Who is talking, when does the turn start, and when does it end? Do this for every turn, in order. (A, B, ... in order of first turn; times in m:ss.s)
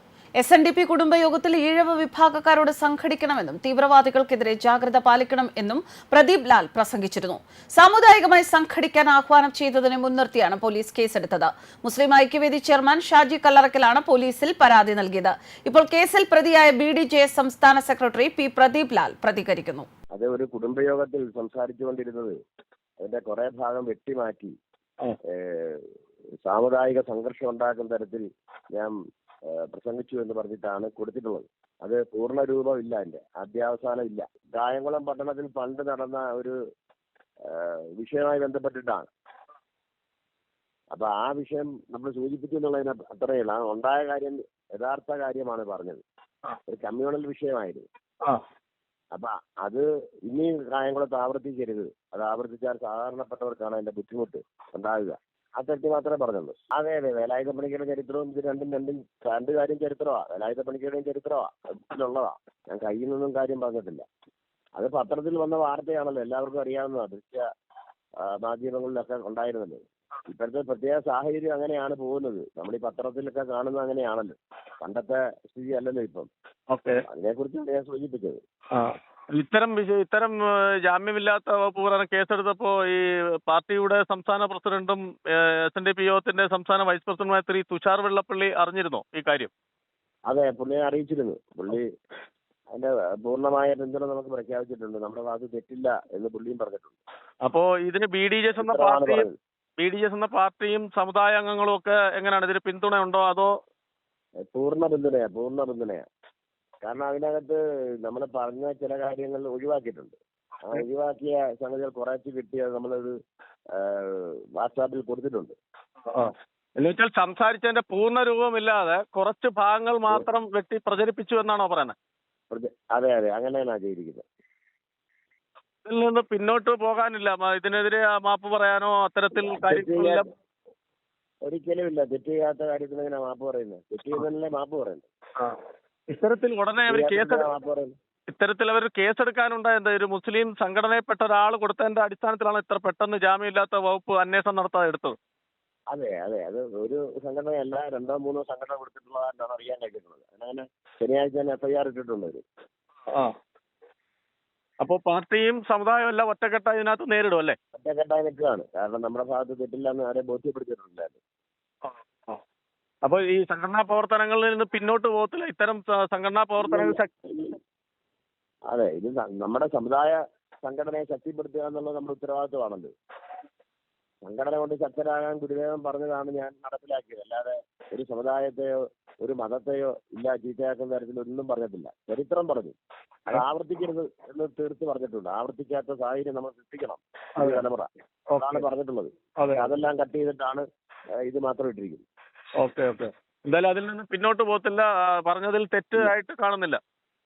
0:00.4-0:19.9 A
0:20.1-0:22.4 B
0:23.0-0:24.5 B
0:25.3-0:25.8 B
0:26.4-0:28.9 B
0:29.5-0:36.6 B
0:37.5-0:39.1 B
0:40.9-0:46.0 B
0:46.7-0:47.8 B
0:49.1-1:04.0 B
1:04.8-1:07.4 B
1:08.2-1:16.3 B
1:16.7-1:17.0 C
1:17.1-1:18.4 B
1:18.7-1:29.5 C
1:30.3-1:31.9 B
1:32.7-1:37.0 B
1:37.4-1:39.2 C
1:38.6-1:39.3 B
1:39.8-1:43.5 C
1:44.5-1:46.0 B
1:46.8-1:53.1 B
1:53.7-1:55.6 B
1:56.1-2:01.9 C
2:02.5-2:04.2 B
2:05.8-2:10.3 C
2:09.3-2:10.2 B
2:11.4-2:15.0 B
2:16.1-2:17.5 C
2:16.8-2:17.9 B
2:18.3-2:25.2 C
2:25.9-2:32.4 B
2:34.8-2:37.6 C
2:37.7-2:41.2 B
2:41.8-2:42.4 C
2:43.0-2:47.1 C
2:46.6-2:47.6 B
2:48.7-2:52.9 B
2:54.2-3:02.8 B
3:03.3-3:10.6 B
3:07.4-3:07.6 C
3:08.3-3:08.6 C
3:09.4-3:09.7 C
3:11.2-3:12.0 B
3:12.6-3:16.8 C